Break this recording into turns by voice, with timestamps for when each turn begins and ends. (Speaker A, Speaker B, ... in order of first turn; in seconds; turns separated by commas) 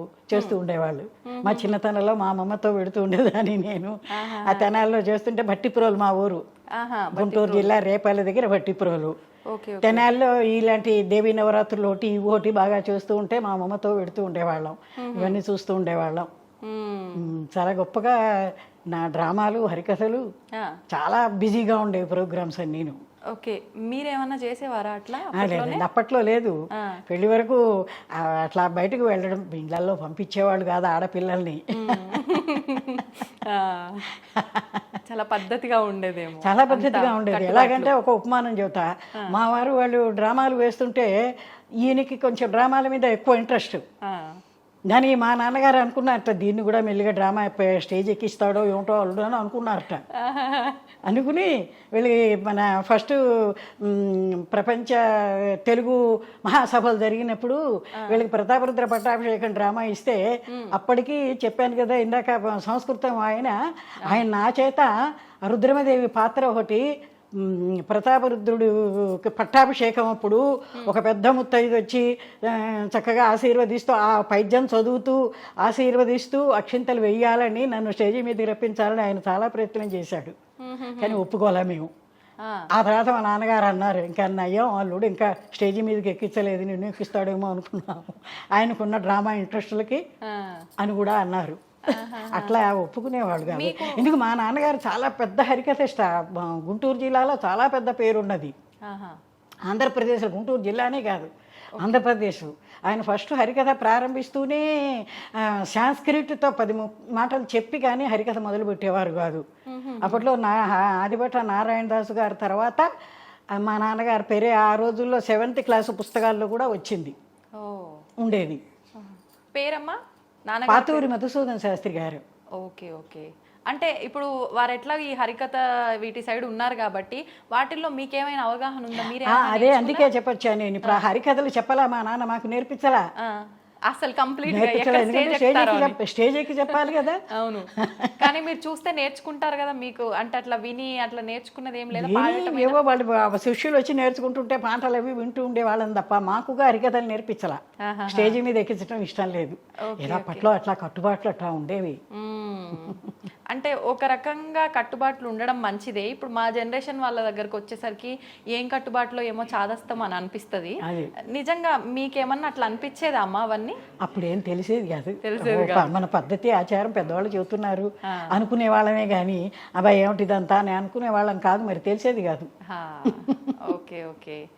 Speaker A: 0.3-6.4, Speaker B: 1.2-1.8, Speaker B: 4.1-4.7, Speaker B: 6.7-7.7, Speaker A: 7.1-9.1, Speaker B: 9.5-10.1, Speaker A: 9.8-16.3, Speaker B: 15.0-15.4, Speaker B: 16.6-17.3, Speaker A: 17.1-20.2, Speaker A: 20.9-23.0, Speaker B: 23.3-25.8, Speaker A: 25.3-26.5, Speaker A: 27.1-32.8, Speaker B: 31.8-34.2, Speaker A: 34.3-35.0, Speaker B: 35.0-37.9, Speaker A: 36.4-41.1, Speaker A: 41.8-43.8, Speaker B: 44.0-44.4, Speaker A: 44.9-50.0, Speaker B: 50.1-50.8, Speaker A: 51.1-60.2, Speaker B: 60.5-60.8, Speaker A: 60.7-64.9, Speaker A: 65.4-80.3, Speaker B: 80.6-81.2, Speaker A: 81.0-81.9, Speaker B: 82.4-82.7, Speaker A: 82.8-90.0, Speaker B: 90.2-90.6, Speaker A: 90.8-98.5, Speaker B: 91.9-92.6, Speaker B: 93.5-94.1, Speaker B: 98.9-99.2, Speaker A: 99.7-109.4, Speaker B: 101.8-102.0, Speaker B: 109.7-110.3, Speaker A: 110.0-112.9, Speaker A: 113.6-117.1, Speaker B: 117.6-118.0, Speaker A: 118.2-118.6, Speaker B: 119.0-120.0, Speaker B: 120.5-121.1, Speaker A: 120.7-122.2, Speaker B: 122.6-130.1, Speaker A: 128.9-133.0, Speaker B: 133.2-136.0, Speaker A: 134.5-137.2, Speaker B: 136.6-142.8, Speaker A: 137.8-138.4, Speaker A: 141.9-152.0, Speaker B: 147.8-148.4, Speaker B: 149.8-150.5, Speaker B: 152.1-153.0, Speaker A: 152.8-153.1, Speaker B: 153.5-160.8, Speaker A: 160.8-161.1, Speaker B: 161.3-163.8, Speaker A: 164.0-172.5, Speaker B: 165.2-165.9, Speaker B: 168.1-168.4, Speaker B: 172.7-174.4, Speaker A: 173.1-173.5